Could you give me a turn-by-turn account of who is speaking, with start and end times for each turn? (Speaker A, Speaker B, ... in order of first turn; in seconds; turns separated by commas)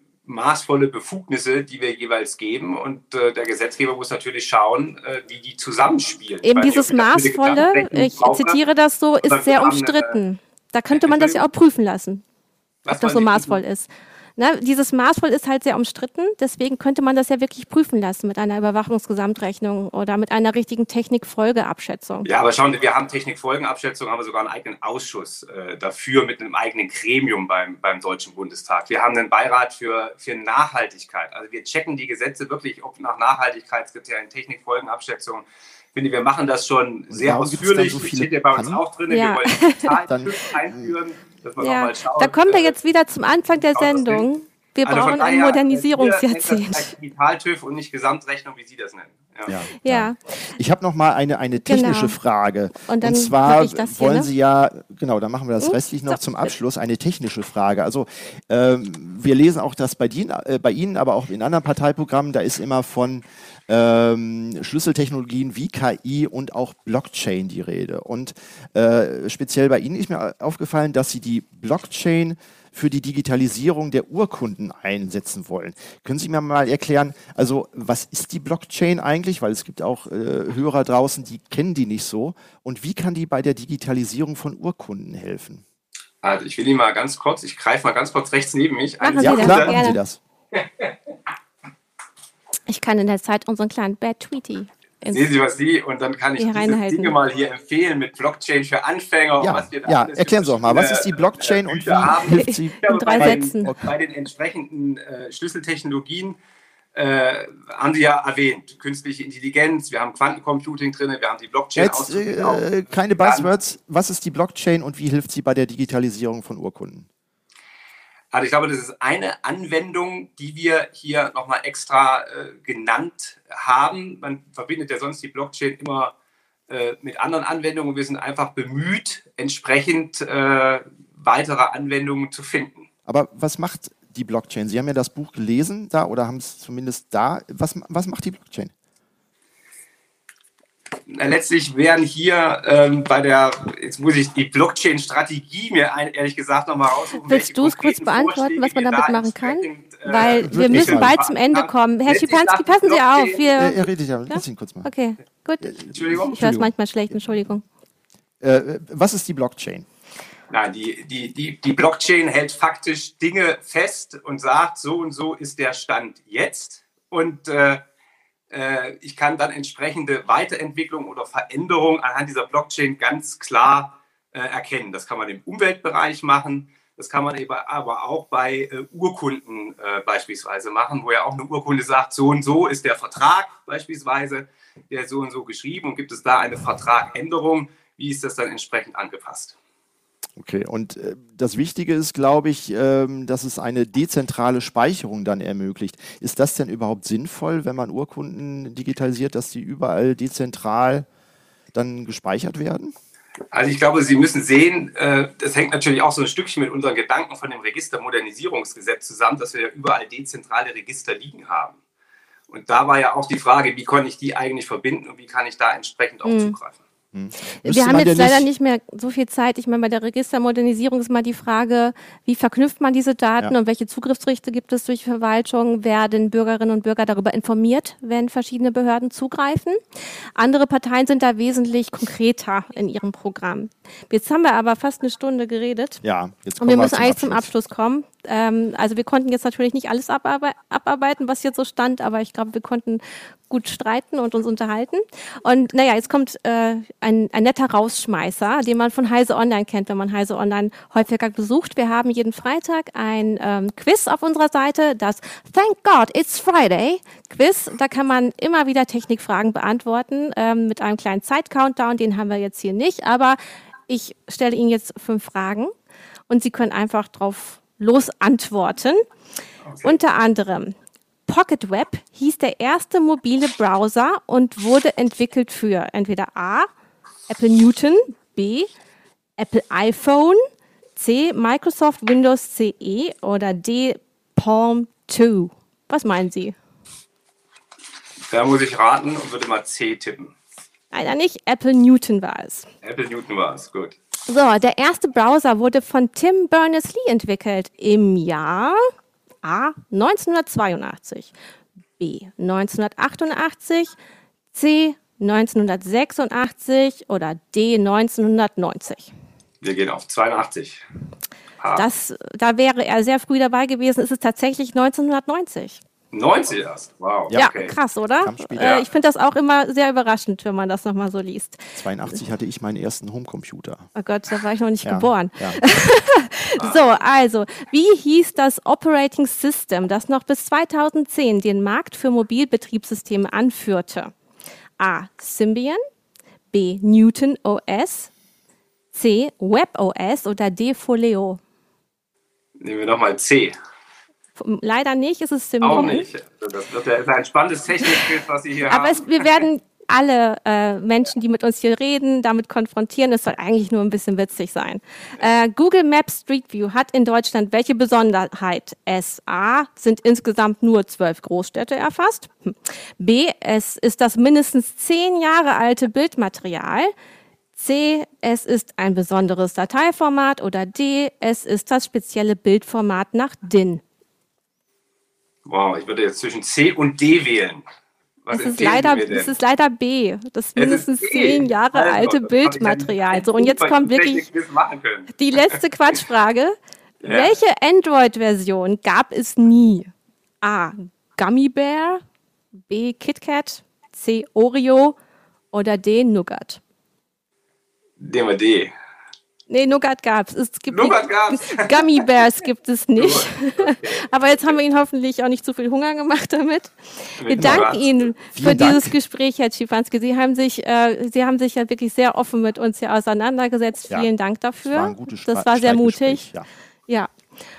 Speaker A: 0.2-8.6, Speaker B: 6.4-12.2, Speaker A: 9.2-10.2, Speaker A: 10.9-11.4, Speaker A: 12.8-13.6, Speaker B: 12.9-22.3, Speaker A: 22.2-42.8, Speaker C: 37.1-38.8, Speaker B: 39.1-39.9, Speaker C: 40.1-40.9, Speaker B: 41.6-46.9, Speaker A: 43.7-44.3, Speaker A: 44.8-49.5, Speaker C: 49.5-85.6, Speaker B: 49.8-50.5, Speaker B: 51.7-52.1, Speaker B: 52.9-54.3, Speaker B: 55.6-56.2, Speaker A: 86.2-89.8, Speaker B: 89.0-90.0, Speaker C: 89.2-90.2, Speaker A: 90.5-90.9, Speaker B: 92.7-95.2, Speaker A: 95.1-106.4, Speaker B: 96.4-97.1, Speaker C: 99.4-103.9, Speaker B: 102.4-103.7, Speaker A: 107.0-112.7, Speaker C: 111.8-117.1, Speaker A: 113.2-113.5, Speaker A: 118.3-126.1, Speaker A: 126.7-132.9, Speaker C: 133.1-138.7, Speaker A: 141.1-153.6, Speaker B: 147.2-157.7, Speaker C: 150.3-151.2, Speaker C: 153.6-154.9, Speaker C: 155.6-156.7, Speaker A: 155.9-156.5, Speaker C: 158.4-159.9, Speaker A: 160.5-167.8, Speaker A: 168.5-189.6, Speaker C: 190.4-201.1, Speaker C: 201.7-202.9, Speaker A: 203.5-211.8, Speaker A: 212.5-216.8, Speaker B: 216.2-216.6, Speaker C: 217.1-218.5, Speaker B: 217.6-229.8, Speaker B: 230.4-236.0, Speaker C: 236.0-237.5, Speaker B: 236.6-265.7, Speaker B: 266.3-269.0, Speaker A: 269.6-269.9, Speaker B: 269.8-270.8, Speaker B: 271.3-276.7, Speaker B: 277.3-278.7, Speaker B: 279.4-280.4, Speaker B: 281.0-286.6, Speaker A: 288.3-290.3, Speaker B: 290.9-292.7, Speaker A: 292.8-294.0, Speaker B: 294.3-298.8, Speaker B: 299.4-301.3, Speaker B: 302.0-303.9, Speaker B: 304.5-309.1, Speaker A: 309.6-310.8, Speaker A: 311.6-311.9, Speaker B: 311.8-315.8, Speaker A: 316.1-317.8, Speaker B: 317.3-321.8, Speaker C: 318.2-318.8, Speaker A: 318.6-318.9, Speaker C: 321.8-323.9, Speaker B: 324.0-334.1, Speaker C: 324.8-325.6, Speaker A: 326.6-326.8, Speaker B: 334.8-335.8, Speaker B: 336.5-338.1, Speaker B: 338.9-341.4, Speaker A: 342.6-343.6, Speaker B: 344.4-346.1, Speaker A: 345.6-349.5, Speaker B: 348.7-366.9, Speaker B: 367.6-373.8, Speaker A: 375.4-377.6, Speaker A: 378.2-379.3, Speaker B: 378.3-384.2, Speaker A: 380.6-385.6, Speaker B: 385.2-389.9, Speaker A: 387.0-387.4, Speaker B: 390.4-392.0, Speaker B: 392.7-395.0, Speaker B: 395.5-396.6, Speaker A: 398.0-398.7, Speaker B: 399.5-416.3, Speaker A: 400.7-402.0, Speaker A: 403.0-404.6, Speaker A: 407.2-408.0, Speaker C: 407.4-407.7, Speaker C: 408.3-408.9, Speaker C: 414.6-416.5